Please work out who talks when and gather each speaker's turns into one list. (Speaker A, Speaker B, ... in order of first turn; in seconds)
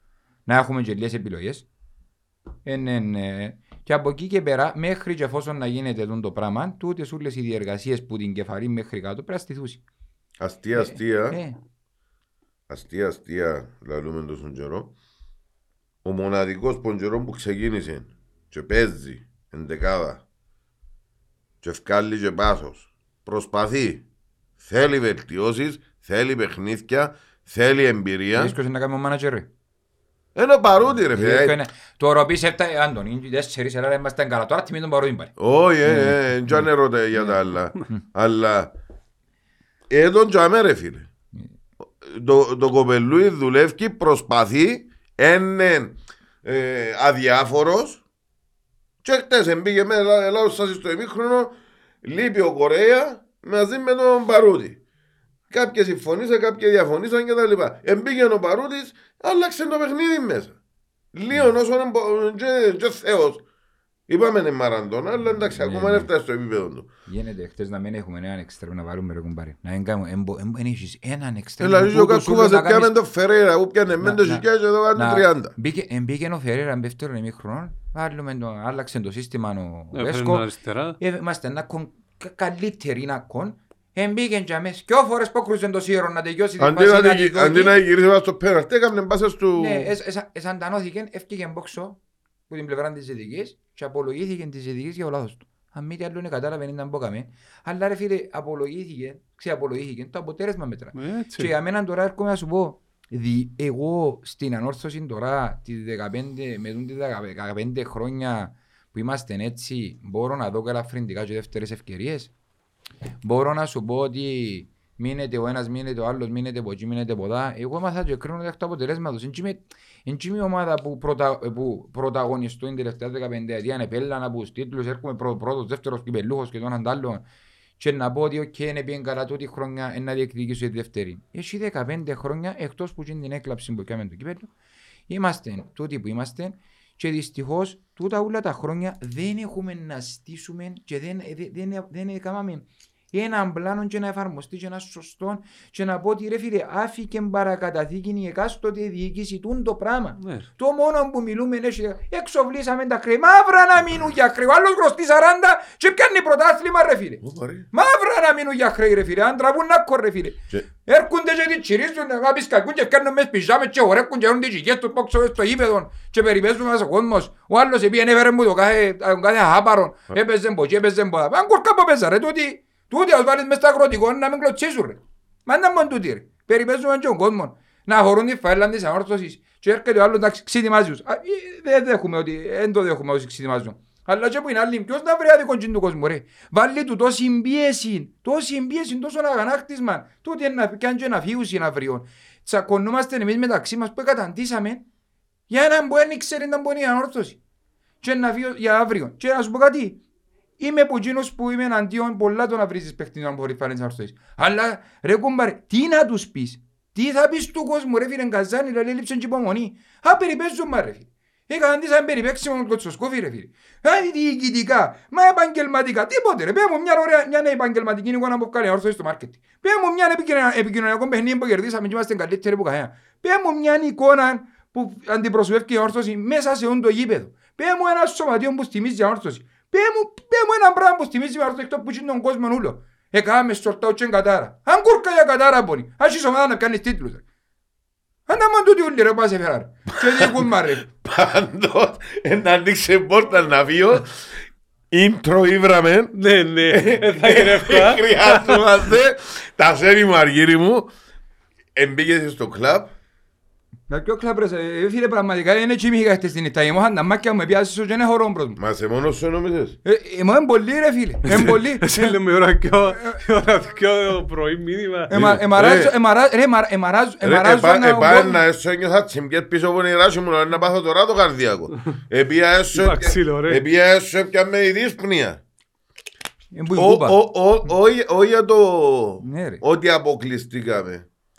Speaker A: 0.5-1.7, 2.6-9.8, 10.8-11.6, 28.4-29.5, 30.9-37.3, 65.4-66.1, 67.1-72.9, 74.0-80.5, 81.0-87.8, 89.6-112.3, 113.2-127.2, 127.8-134.5, 135.1-194.9, 195.5-197.4, 198.0-200.0, 200.6-237.2, 238.3-240.9, 253.9-258.6, 259.9-262.2, 265.1-268.4, 276.5-277.2, 279.2-279.6
Speaker B: 10.4-11.4, 12.7-14.9, 16.0-20.2, 21.6-24.1, 24.6-28.6, 30.4-31.6, 35.4-38.7, 39.9-41.1, 42.0-48.0, 49.0-54.8, 55.5-60.6, 61.1-63.4, 64.1-66.9, 71.6-75.5, 86.6-89.9, 157.2-157.7, 240.0-244.3, 244.9-246.1, 246.7-250.9, 251.8-252.9, 258.6-259.8, 265.1-265.9, 267.2-275.4, 276.8-281.1
Speaker C: 79.9-81.0, 101.0-101.5, 150.2-150.5, 246.2-248.7, 261.3-265.2, 272.7-273.6